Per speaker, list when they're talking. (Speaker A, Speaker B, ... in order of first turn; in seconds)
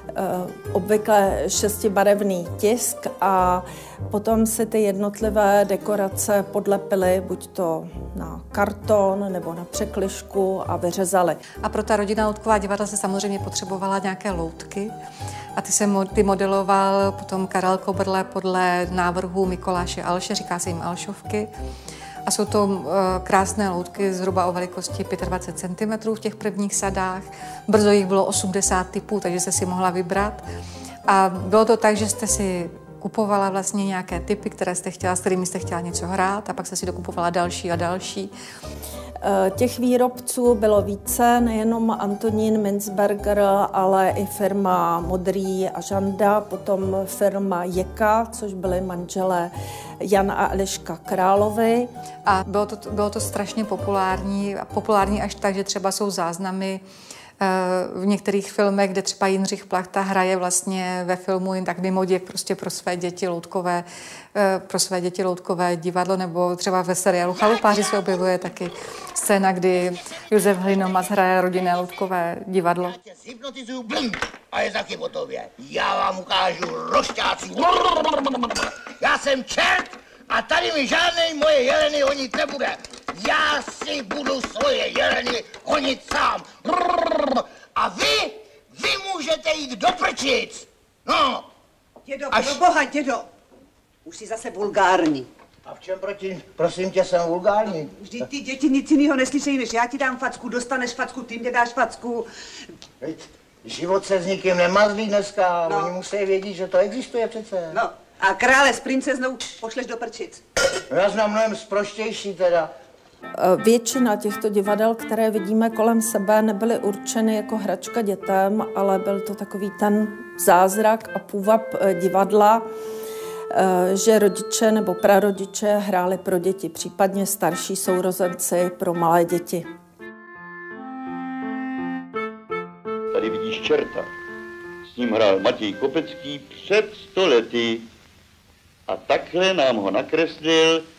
Speaker A: 0.1-11.4, 39.2-51.9, 113.4-122.7, 123.5-129.7
Speaker B: 11.6-14.9, 15.6-21.5, 22.2-30.4, 31.1-38.3, 52.2-56.8, 57.4-73.0
Speaker C: 73.0-91.5, 92.3-92.6, 95.7-97.9, 103.0-107.8, 110.9-112.7
Speaker D: 92.1-93.3, 94.0-95.3, 97.7-102.2, 105.7-106.0, 107.7-110.4
Speaker E: 133.1-134.1, 134.9-137.8, 138.9-140.8